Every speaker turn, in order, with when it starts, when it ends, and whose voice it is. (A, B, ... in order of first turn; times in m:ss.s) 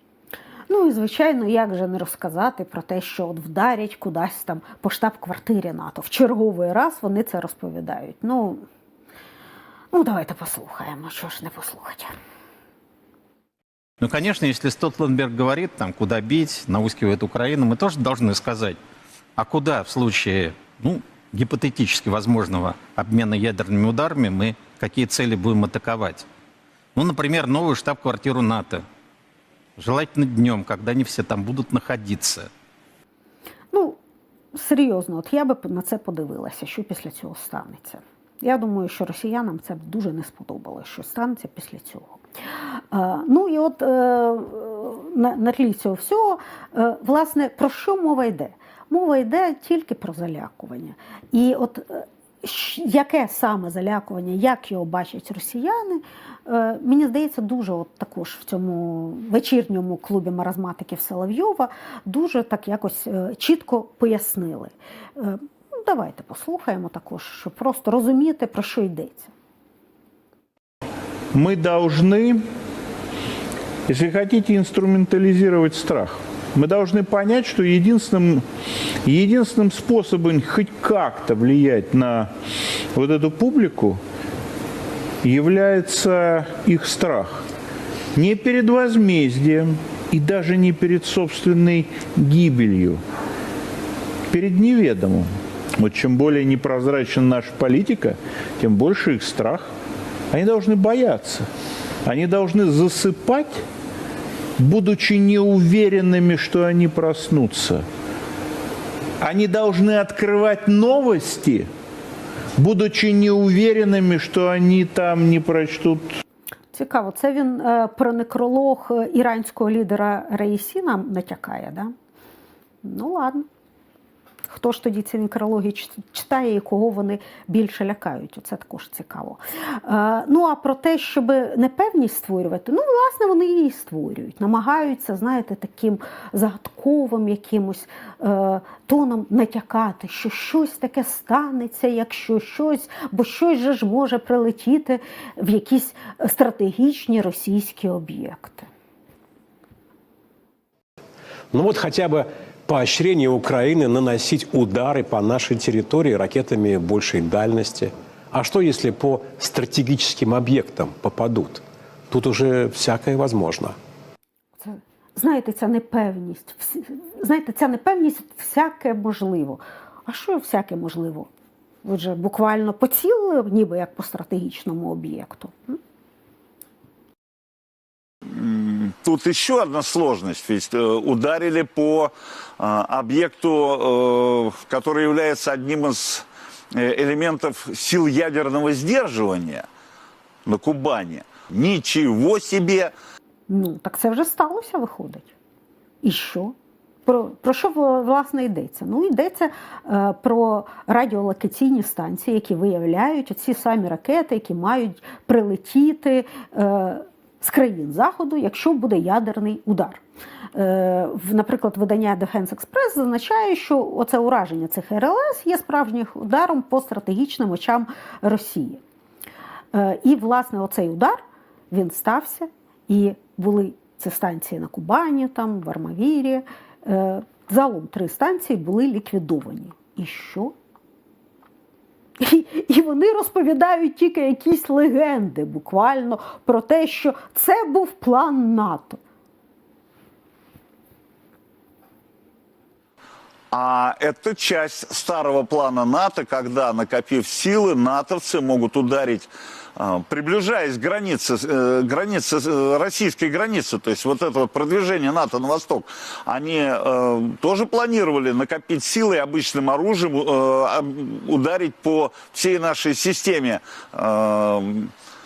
0:00.7-0:08.6 A
0:09.9-0:12.1 A
0:14.0-0:18.8 B
0:19.4-0:26.2 B
0:26.9-0:28.8 B
0:29.8-0:32.5 B
0:33.7-0:34.0 A
0:34.5-0:42.2 A
0:42.9-1:09.3 A
1:11.3-1:12.4 C
1:13.9-1:18.4 C
1:19.0-1:22.3 C
1:22.9-1:24.0 C
1:25.2-1:27.5 C
1:28.1-1:33.0 C
1:34.3-1:39.7 C
1:40.3-1:41.5 C
1:42.0-1:43.6 C
1:44.6-1:47.8 C
1:49.2-1:51.7 C
1:52.6-1:56.1 C
1:56.7-2:01.9 A
2:02.8-2:03.5 A
2:04.5-2:28.7 A
2:31.5-2:43.8 D
2:44.6-2:51.3 A
2:51.8-2:55.8 A
2:58.3-3:09.6 E
3:10.4-3:12.9 E
3:13.5-3:15.3 A
3:16.0-3:16.5 A
3:17.0-3:30.0 A
3:30.5-3:38.8 A
3:39.7-3:50.5 A
3:52.2-3:59.0 A
4:03.5-4:24.9 E